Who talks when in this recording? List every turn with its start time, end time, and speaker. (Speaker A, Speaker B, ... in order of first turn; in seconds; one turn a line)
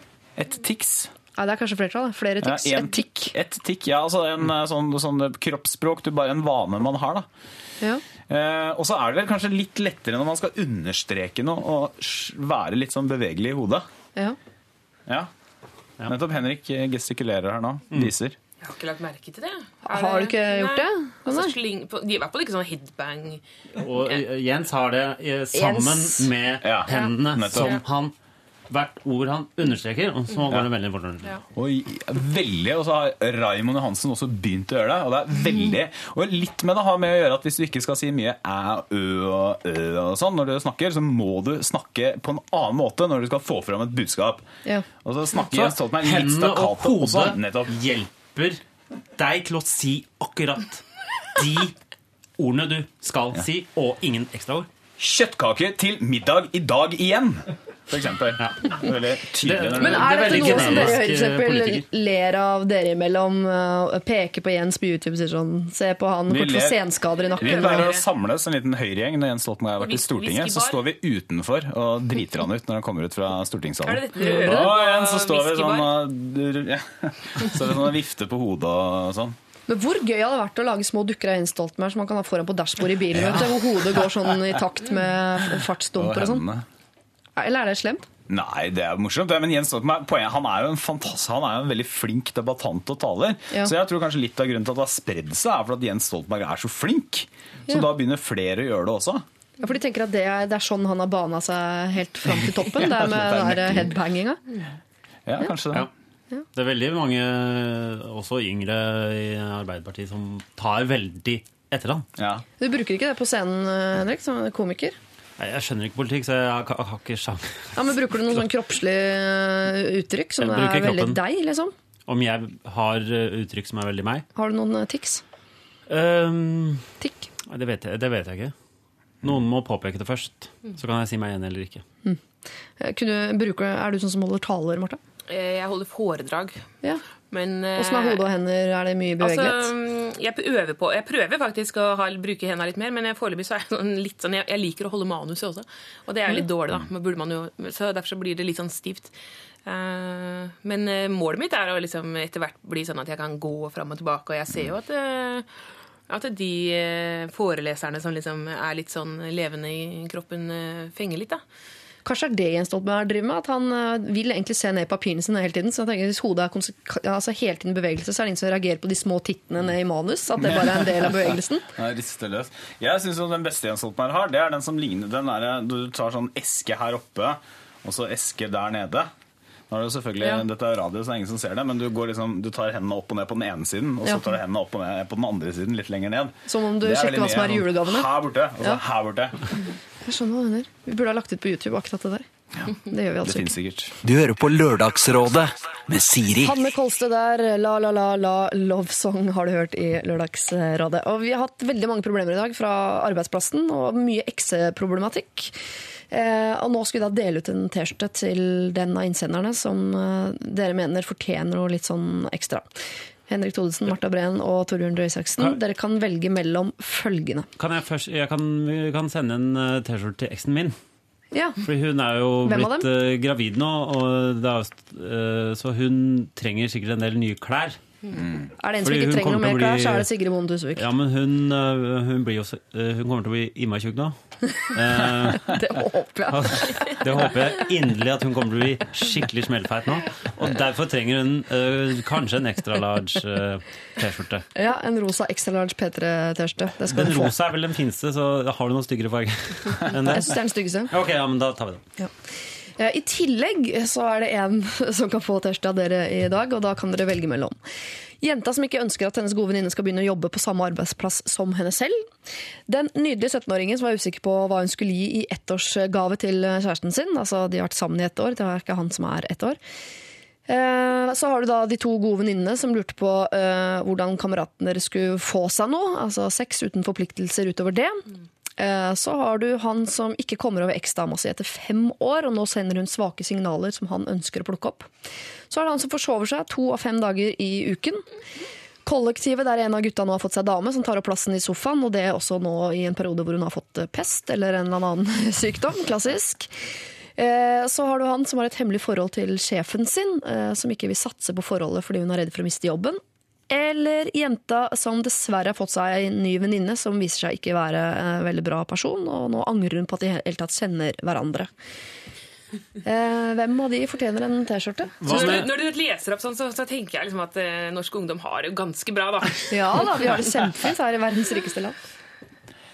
Speaker A: 0.3-1.1
Speaker B: 1.4-3.3
Speaker A: 2.4-7.3
Speaker A: 8.3-13.9
Speaker A: 16.0-18.4
Speaker C: 18.6-23.4
Speaker B: 19.9-21.5
Speaker D: 23.8-28.1
Speaker B: 25.5-26.3
Speaker A: 26.6-27.8
Speaker C: 26.9-27.7
Speaker D: 28.7-31.4
Speaker A: 31.5-44.5
Speaker A: 45.0-47.8
Speaker D: 45.5-48.6
Speaker D: 49.1-51.8
Speaker D: 52.4-54.7
Speaker A: 55.0-61.0
Speaker D: 58.4-58.8
Speaker D: 59.4-61.8
Speaker B: 59.7-67.8
Speaker A: 66.3-66.8
Speaker C: 67.3-68.0
Speaker A: 67.4-79.3
Speaker C: 69.8-70.8
Speaker C: 73.8-75.9
Speaker B: 74.2-74.7
Speaker B: 79.7-86.4
Speaker A: 83.1-84.1
Speaker A: 86.0-86.6
Speaker B: 87.4-88.0
Speaker A: 88.3-99.2
Speaker B: 99.6-104.4
Speaker A: 102.5-103.9
Speaker A: 105.2-105.9
Speaker D: 106.5-112.1
Speaker A: 112.2-112.4
Speaker B: 112.6-115.0
Speaker D: 115.4-118.3
Speaker B: 117.7-121.7
Speaker D: 120.4-121.2
Speaker D: 122.1-124.2
Speaker B: 124.3-125.2
Speaker D: 125.9-126.9
Speaker B: 127.0-127.3
Speaker D: 127.5-128.5
Speaker D: 129.2-131.8
Speaker B: 132.8-135.0
Speaker C: 135.3-136.6
Speaker C: 137.3-138.2
Speaker B: 137.8-139.7
Speaker C: 139.2-149.1
Speaker C: 149.7-155.5
Speaker C: 156.1-161.4
Speaker B: 162.0-171.7
Speaker A: 170.6-171.2
Speaker A: 171.7-179.1
Speaker A: 179.7-189.5
Speaker B: 186.5-188.8
Speaker B: 190.0-193.5
Speaker A: 192.6-193.9
Speaker E: 194.0-196.6
Speaker B: 196.4-205.5
Speaker B: 206.1-212.7
Speaker B: 213.3-217.5
Speaker D: 217.6-220.8
Speaker B: 221.3-221.6
Speaker D: 221.6-227.8
Speaker B: 222.4-222.9
Speaker B: 228.6-230.9
Speaker D: 228.8-230.1
Speaker D: 230.8-235.5
Speaker B: 235.4-237.2
Speaker D: 236.3-244.4
Speaker B: 244.5-247.3
Speaker D: 246.9-251.8
Speaker B: 250.1-250.9
Speaker B: 252.8-257.6
Speaker B: 258.2-262.1
Speaker B: 262.7-269.6
Speaker B: 270.5-284.9
Speaker B: 285.5-288.1
Speaker B: 288.9-296.5
Speaker B: 297.2-311.5
Speaker B: 312.8-315.4
Speaker D: 315.0-315.5
Speaker C: 315.1-320.1
Speaker B: 319.5-321.8